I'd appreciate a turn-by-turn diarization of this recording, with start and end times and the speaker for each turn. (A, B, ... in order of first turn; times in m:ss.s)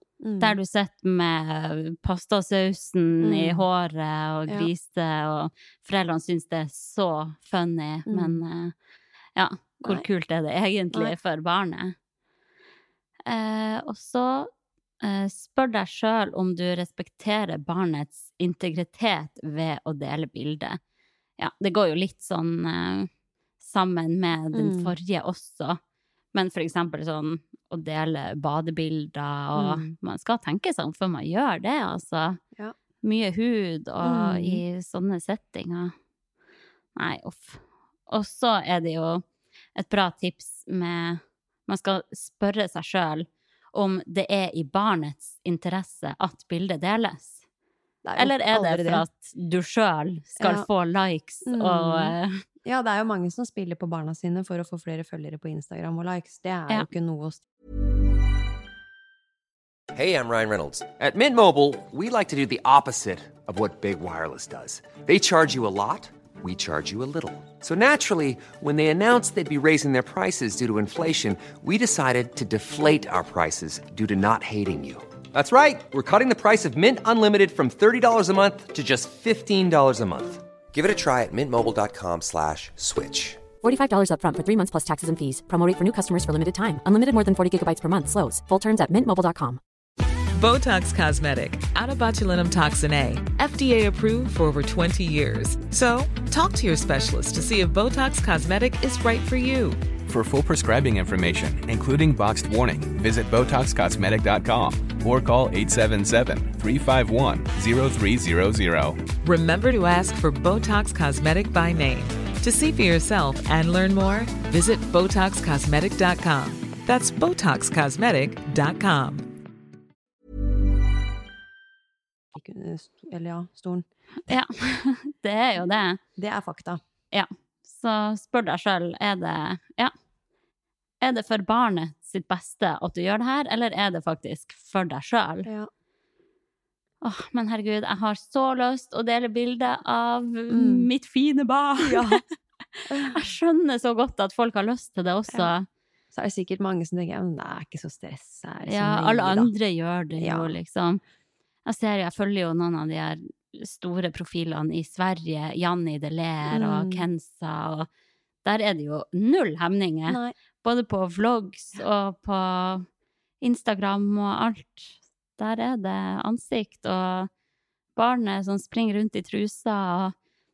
0:00.2-0:00.6 A
0:00.4-0:08.8 B
0:03.2-0:03.6 A
0:08.1-0:08.4 A
0:09.4-0:12.0 B
0:13.3-0:14.5 B
0:15.0-0:20.8 B
0:21.4-0:23.1 B
0:23.6-0:25.8 B
0:24.5-0:24.9 A
0:26.3-0:32.4 B
0:29.6-0:29.9 A
0:33.0-0:35.9 B
0:34.0-0:34.6 A
0:37.0-0:39.2 B
0:39.8-0:47.4 B
0:48.0-0:49.1 A
0:48.2-0:52.4 B
0:50.4-0:50.7 A
0:51.5-0:57.4 A
0:59.9-1:23.5 C
1:23.6-1:29.6 D
1:30.4-1:39.8 E
1:40.1-1:49.0 F
1:49.2-1:59.3 E
2:02.3-2:03.9 A
2:04.3-2:06.0 B
2:06.2-2:06.8 A
2:07.1-2:09.9 B
2:11.0-2:15.5 B
2:15.4-2:15.7 A
2:17.0-2:22.2 B
2:20.5-2:20.9 A
2:21.8-2:22.2 A
2:22.8-2:25.7 B
2:22.9-2:23.2 A
2:26.1-2:29.5 A
2:28.7-2:31.0 B
2:30.2-2:30.6 A
2:31.7-2:37.9 B
2:36.5-2:37.1 A
2:38.4-2:42.9 B
2:40.1-2:40.4 A
2:43.4-2:47.3 B
2:48.0-2:50.1 B